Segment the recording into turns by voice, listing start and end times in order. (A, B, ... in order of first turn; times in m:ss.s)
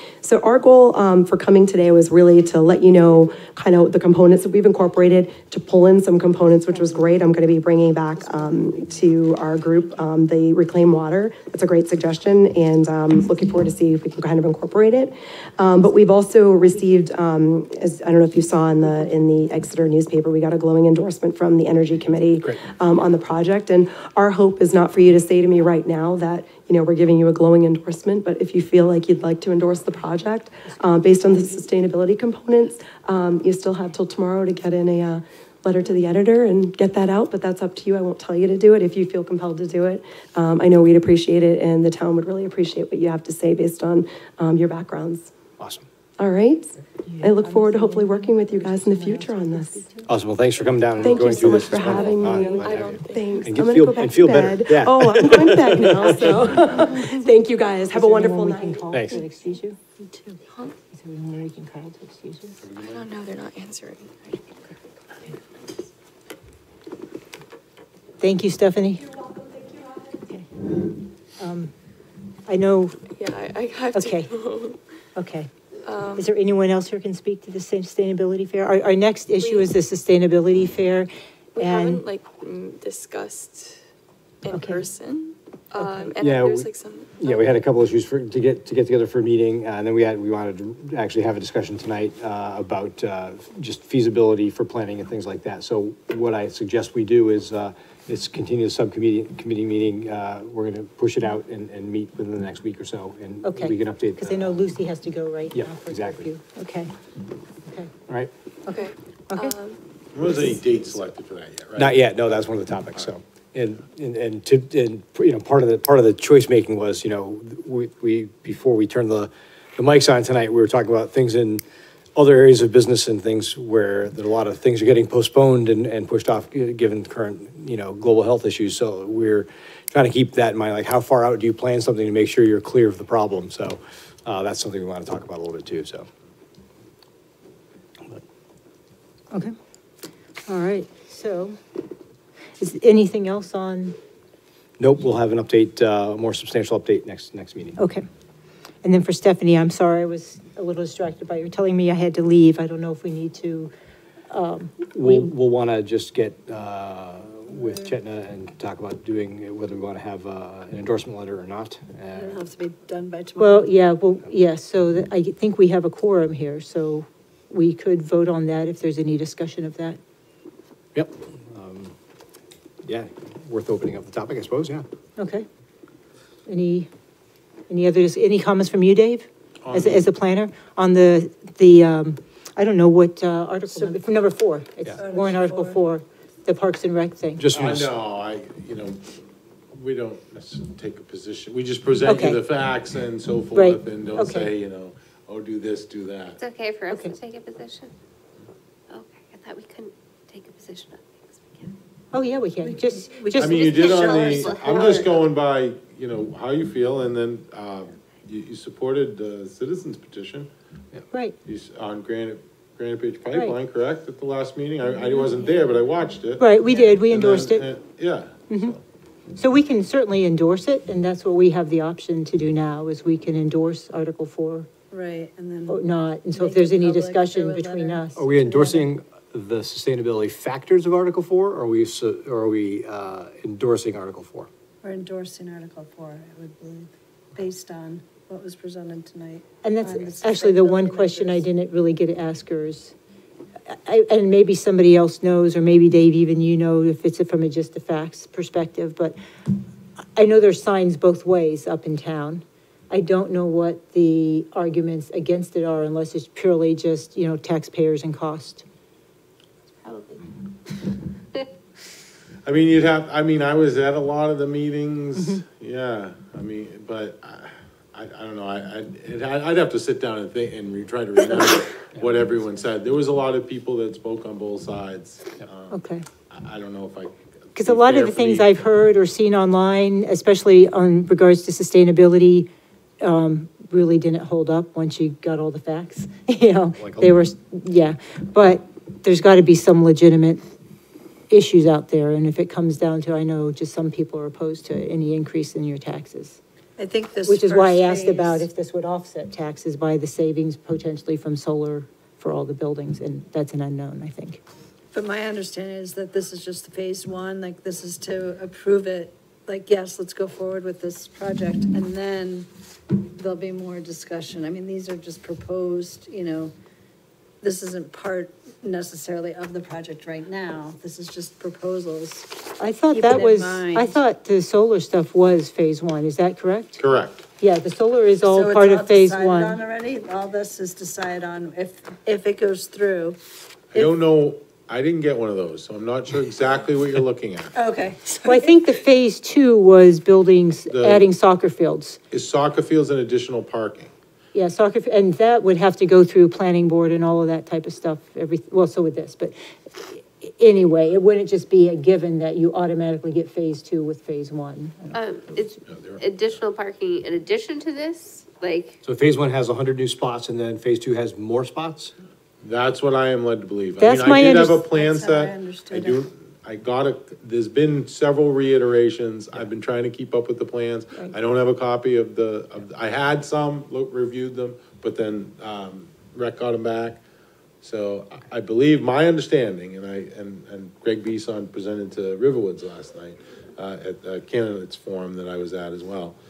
0:00.2-0:45.3 A
0:45.6-0:45.8 B
0:46.2-0:49.8 A
0:47.1-0:50.0 C
0:50.0-0:56.6 B
0:51.0-0:58.9 A
0:51.0-0:53.5 D
0:52.4-0:52.6 C
0:56.6-0:57.1 C
0:57.9-0:59.8 C
0:58.9-0:59.2 B
1:00.9-1:02.6 C
1:02.6-1:03.0 E
1:02.8-1:04.6 D
1:08.2-1:09.0 C
1:09.0-1:10.3 A
1:11.4-1:11.7 C
1:12.5-1:13.0 C
1:13.2-1:14.8 D
1:13.9-1:14.3 C
1:15.2-1:15.5 C
1:15.8-1:16.3 D
1:16.1-1:22.0 C
1:19.4-1:19.7 D
1:21.6-1:23.8 D
1:24.4-1:27.6 D
1:24.5-1:24.8 C
1:25.8-1:26.1 C
1:26.2-1:44.6 B
1:43.4-1:46.9 C
1:45.5-1:46.3 B
1:47.6-1:47.9 C
1:48.6-1:49.6 C
1:48.7-1:50.6 D
1:50.1-1:53.1 E
1:51.8-2:01.6 B
2:02.1-2:16.1 B
2:20.5-2:21.6 C
2:22.6-2:24.0 C
2:24.8-2:27.8 B
2:27.8-2:28.0 C
2:28.8-2:33.7 C
2:34.3-2:35.3 C
2:34.9-2:42.4 B
2:42.1-2:43.7 F
2:43.4-2:50.0 C
2:50.9-2:51.9 B
2:52.8-2:54.8 B
2:55.2-2:55.4 C
2:56.4-2:56.9 C
2:57.7-3:07.4 C
2:59.6-3:00.1 E
3:03.7-3:04.3 F
3:05.0-3:05.8 F
3:07.4-3:07.9 B
3:07.5-3:09.0 E
3:09.7-3:16.4 E
3:12.0-3:12.4 C
3:13.5-3:14.5 C
3:16.4-3:17.9 G
3:16.9-3:17.1 C
3:18.9-3:21.7 G
3:22.1-3:23.6 C
3:22.6-3:25.2 F
3:23.4-3:30.5 E
3:23.8-3:24.7 G
3:31.4-3:36.5 E
3:36.4-3:37.6 C
3:36.7-3:37.0 F
3:37.1-3:38.8 E
3:38.5-3:38.7 C
3:39.4-3:44.7 C
3:44.9-3:48.9 F
3:45.7-3:48.2 C
3:48.2-3:54.5 B
3:54.8-4:01.4 F
3:59.6-4:02.9 C
4:03.7-4:09.1 C
4:10.2-4:18.6 C
4:19.9-4:20.2 C
4:22.4-4:38.6 E
4:25.2-4:25.4 C
4:35.7-4:36.0 C
4:37.6-4:42.5 C
4:43.0-4:50.5 C
4:46.8-4:47.2 B
4:51.3-4:56.4 C
4:56.8-4:58.4 F
4:57.2-5:04.4 C
5:04.9-5:12.5 F
5:13.0-5:16.5 F
5:17.4-5:24.0 F
5:22.6-5:26.8 C
5:26.8-5:27.2 E
5:27.4-5:29.6 C
5:28.2-5:33.2 F
5:33.7-5:37.5 E
5:37.5-5:38.6 F
5:38.2-5:42.0 C
5:40.7-5:41.1 E
5:42.1-5:43.9 E
5:44.3-5:55.0 C
5:54.9-5:58.8 G
5:55.7-5:56.0 E
5:58.8-6:01.9 B
6:02.4-6:17.0 E
6:03.8-6:04.6 C
6:04.6-6:06.1 F
6:17.6-6:26.2 E